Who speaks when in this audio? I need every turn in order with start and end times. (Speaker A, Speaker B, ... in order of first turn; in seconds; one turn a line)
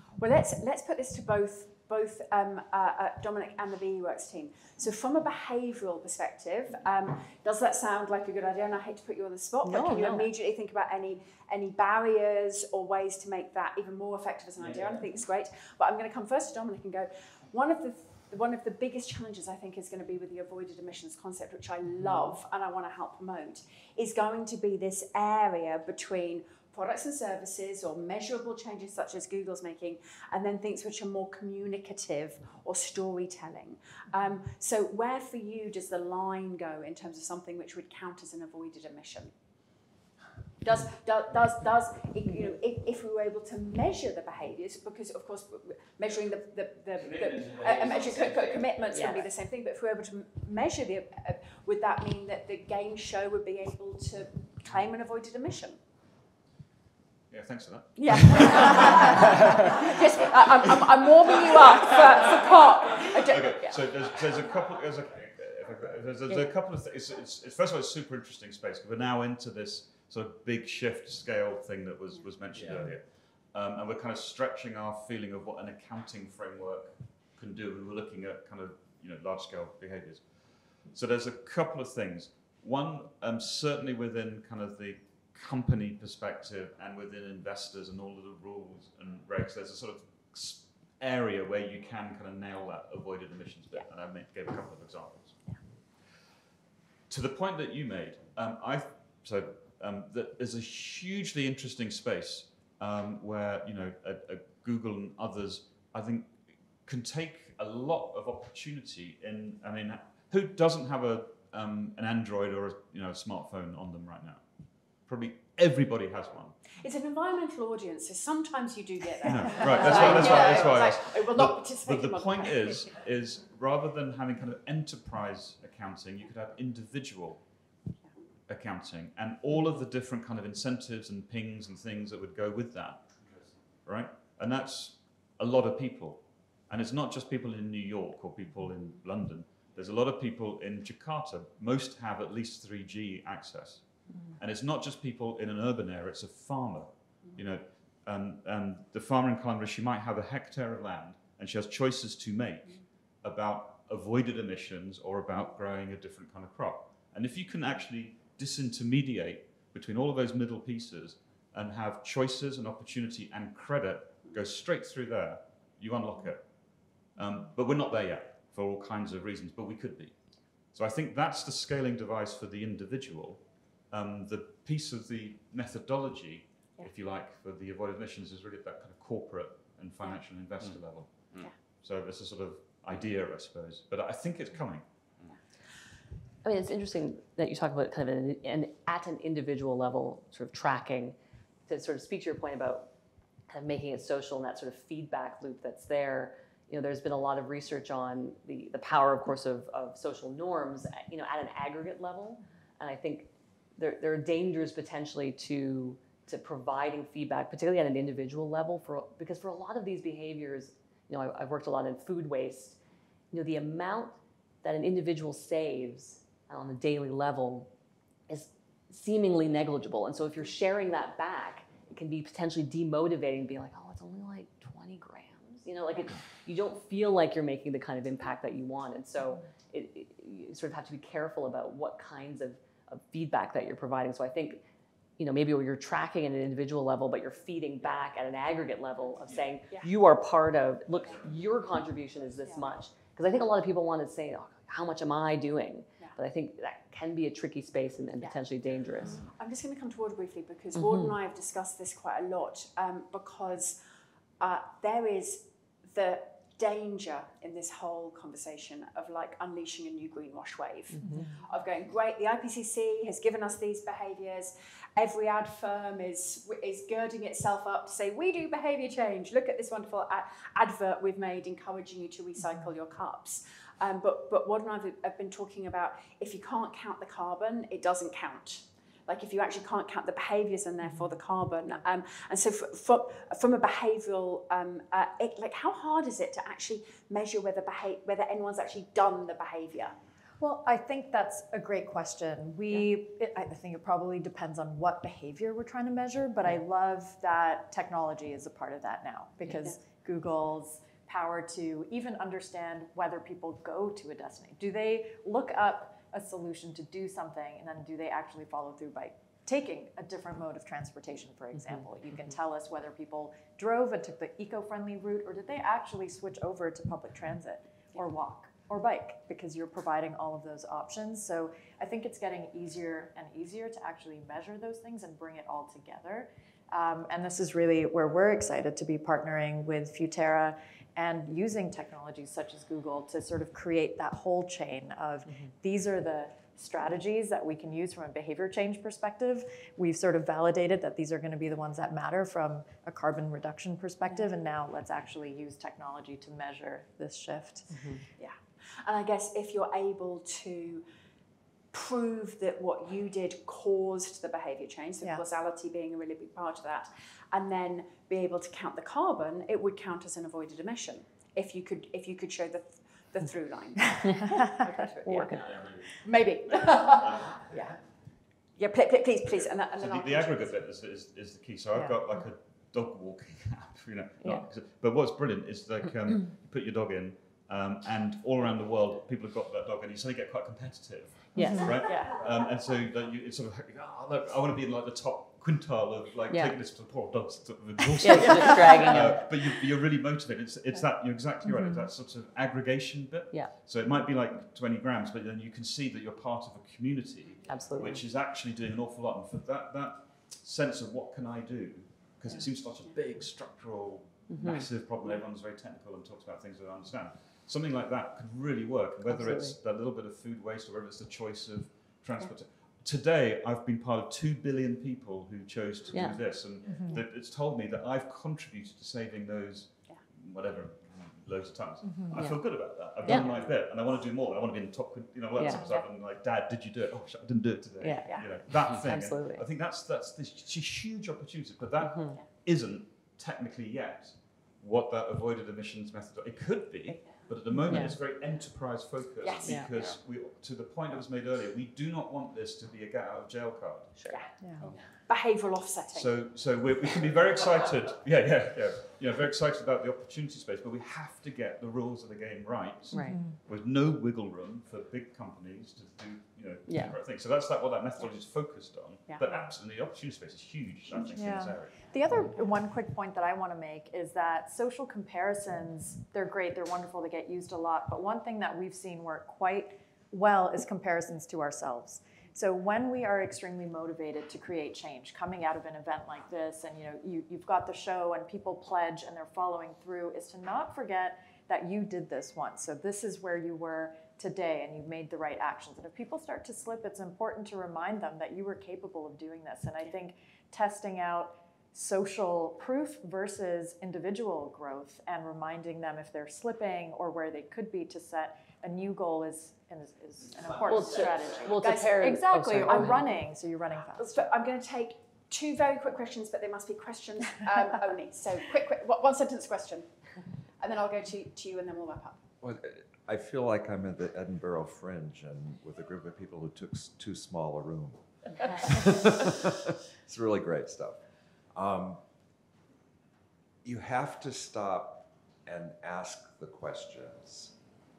Speaker A: 0.2-39.3
Speaker B: 9.6-10.3
Speaker A: 40.6-55.8
Speaker B: 48.9-49.2
Speaker C: 57.3-59.9
Speaker A: 58.0-63.8
Speaker C: 63.3-80.3
Speaker C: 80.9-95.4
Speaker C: 97.1-114.4
Speaker C: 115.1-116.5
Speaker A: 116.8-122.9
Speaker C: 119.2-127.4
Speaker C: 128.5-133.0
Speaker C: 133.8-143.8
Speaker C: 144.4-166.4
Speaker C: 167.2-170.1
Speaker C: 170.7-184.8
Speaker B: 186.4-191.2
Speaker B: 191.7-192.9
Speaker B: 193.5-212.8
Speaker B: 213.3-217.7
Speaker B: 218.3-234.6
Speaker B: 235.2-249.2
Speaker A: 249.2-253.8
Speaker B: 250.8-251.2
Speaker A: 254.4-289.9
Speaker B: 260.9-261.3
Speaker D: 290.4-347.9
Speaker B: 299.4-299.7
Speaker B: 311.5-312.4
Speaker B: 347.7-348.0
Speaker A: 348.2-350.8
Speaker A: 351.7-367.7
Speaker B: 365.0-365.6
Speaker C: 365.5-365.8
Speaker C: 366.6-367.4
Speaker A: 368.6-370.6
Speaker C: 369.8-443.9
Speaker B: 374.2-374.5
Speaker B: 381.4-382.2
Speaker B: 386.3-386.6
Speaker B: 388.0-389.6
Speaker B: 397.5-398.0
Speaker B: 404.3-404.7
Speaker B: 409.1-409.6
Speaker B: 415.9-416.2
Speaker B: 422.1-423.4
Speaker B: 425.4-425.7
Speaker A: 425.6-425.9
Speaker B: 427.8-429.5
Speaker B: 431.8-432.2
Speaker B: 437.1-438.0
Speaker A: 439.2-439.6
Speaker B: 439.4-439.9
Speaker B: 444.0-444.3
Speaker D: 444.4-444.7
Speaker A: 445.1-446.1
Speaker C: 445.9-461.9
Speaker B: 452.9-453.3
Speaker B: 456.7-457.0
Speaker D: 461.1-504.2
Speaker B: 500.6-503.1
Speaker A: 501.6-503.1
Speaker A: 504.0-509.9
Speaker A: 510.6-512.2
Speaker E: 512.4-518.0
Speaker E: 518.6-519.1
Speaker E: 520.0-521.0
Speaker E: 521.5-522.0
Speaker E: 523.6-527.5